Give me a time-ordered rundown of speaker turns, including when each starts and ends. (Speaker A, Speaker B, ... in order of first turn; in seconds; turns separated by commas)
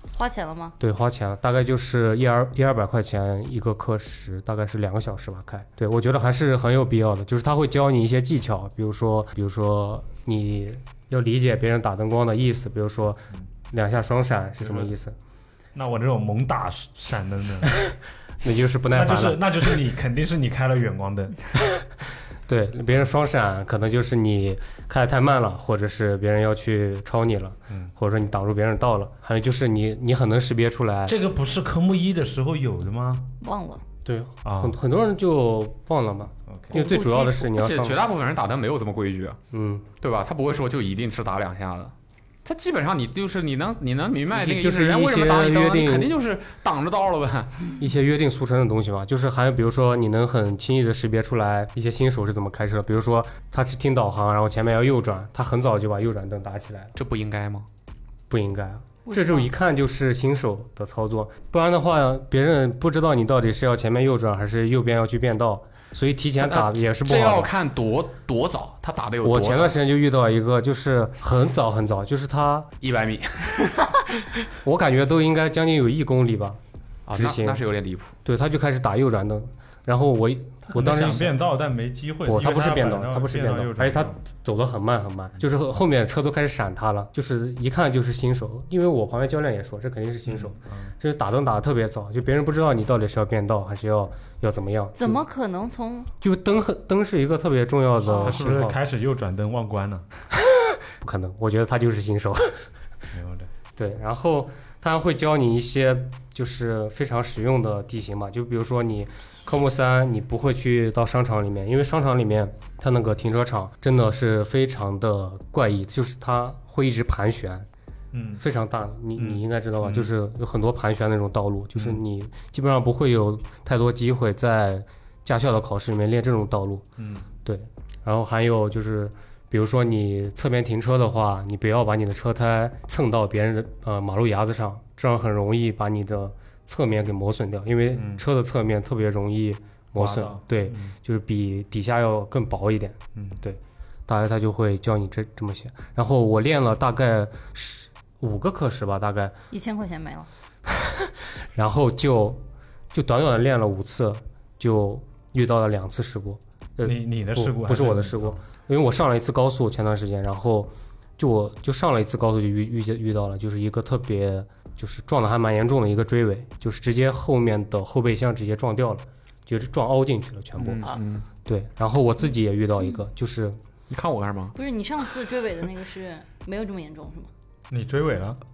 Speaker A: 0.1-0.7, Speaker B: 0.8-15.1, Speaker C: 14.6-14.9, Speaker C: 15.7-17.8, Speaker B: 18.4-19.8, Speaker C: 18.9-21.4, Speaker B: 22.5-31.1, Speaker C: 31.1-33.2, Speaker A: 33.4-33.8, Speaker B: 34.0-38.0, Speaker C: 34.4-34.8, Speaker C: 36.5-36.8, Speaker A: 36.7-37.5, Speaker D: 37.5-39.4, Speaker B: 39.5-39.9, Speaker D: 40.0-41.9, Speaker D: 42.4-47.7, Speaker B: 44.3-46.1, Speaker B: 47.8-56.9, Speaker D: 56.9-57.7, Speaker B: 58.3-67.5, Speaker A: 59.1-59.5, Speaker D: 66.4-69.8, Speaker B: 69.2-72.7, Speaker D: 72.8-74.0, Speaker B: 74.6-76.6, Speaker D: 77.1-78.1, Speaker B: 77.1-77.6, Speaker B: 78.2-81.4, Speaker C: 80.7-84.2, Speaker B: 82.2-95.2, Speaker C: 90.2-90.9, Speaker A: 95.0-96.1, Speaker B: 96.2-98.8, Speaker A: 98.1-98.4, Speaker C: 98.1-100.0, Speaker B: 101.0-102.6, Speaker C: 103.1-103.5, Speaker B: 103.8-117.7, Speaker C: 118.1-118.4, Speaker B: 118.4-126.8, Speaker C: 119.2-120.1, Speaker C: 121.7-122.0, Speaker C: 127.0-127.2, Speaker B: 127.4-149.3, Speaker C: 137.9-138.2, Speaker C: 139.9-140.9, Speaker A: 149.5-150.3, Speaker B: 150.8-170.9, Speaker C: 156.8-158.4, Speaker D: 170.6-171.3, Speaker B: 171.4-173.6, Speaker D: 173.9-174.6, Speaker A: 174.6-177.3, Speaker C: 177.7-178.4